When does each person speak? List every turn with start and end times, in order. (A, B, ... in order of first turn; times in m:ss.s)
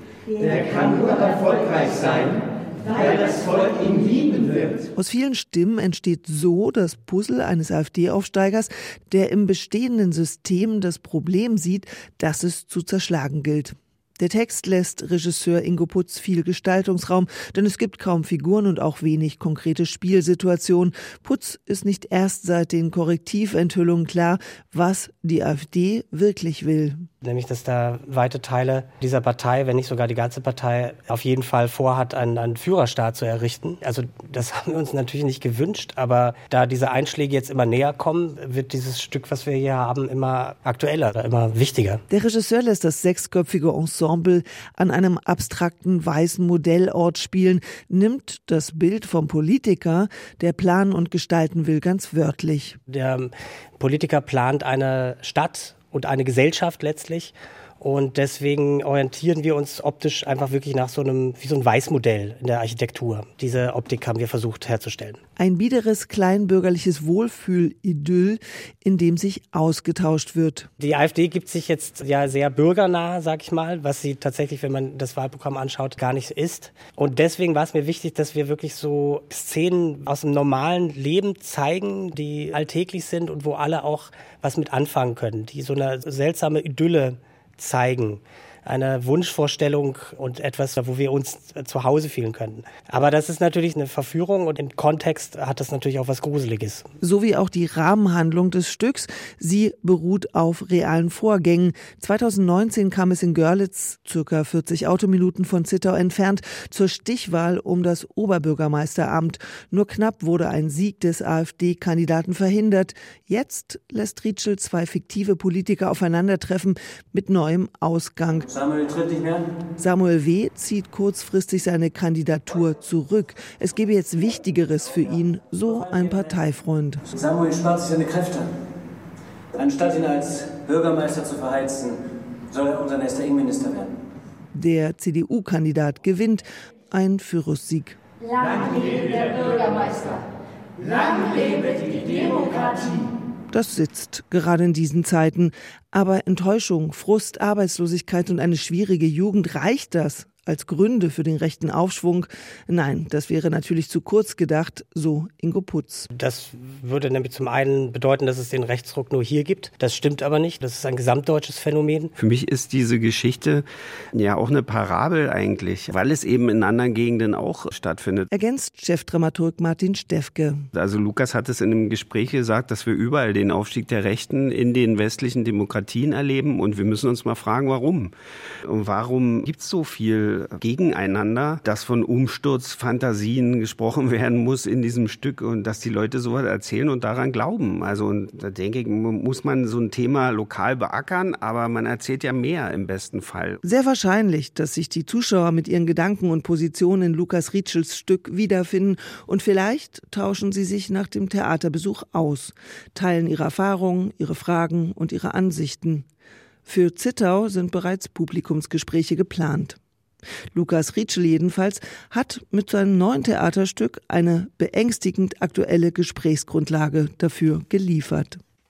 0:00.4-0:04.9 A
0:04.9-0:27.0 B
0:27.2-0:42.0 C
0:42.1-0:52.8 B
0:52.9-1:05.2 C
1:05.4-1:10.7 B
1:10.8-1:36.9 C
1:37.0-1:58.5 B
1:58.5-1:59.5 D
1:59.8-2:07.0 B
2:07.1-2:08.5 D
2:09.6-2:12.0 D
2:12.5-2:13.9 D
2:14.5-2:18.0 B
2:18.3-2:20.2 E
2:21.0-2:22.9 E
2:23.5-2:36.1 B
2:36.1-2:42.1 C
2:42.2-2:48.3 F
2:48.3-2:50.7 B
2:50.7-2:58.1 F
2:58.7-3:13.6 F
3:13.6-3:26.0 B
3:26.7-3:29.8 B
3:30.5-3:38.4 B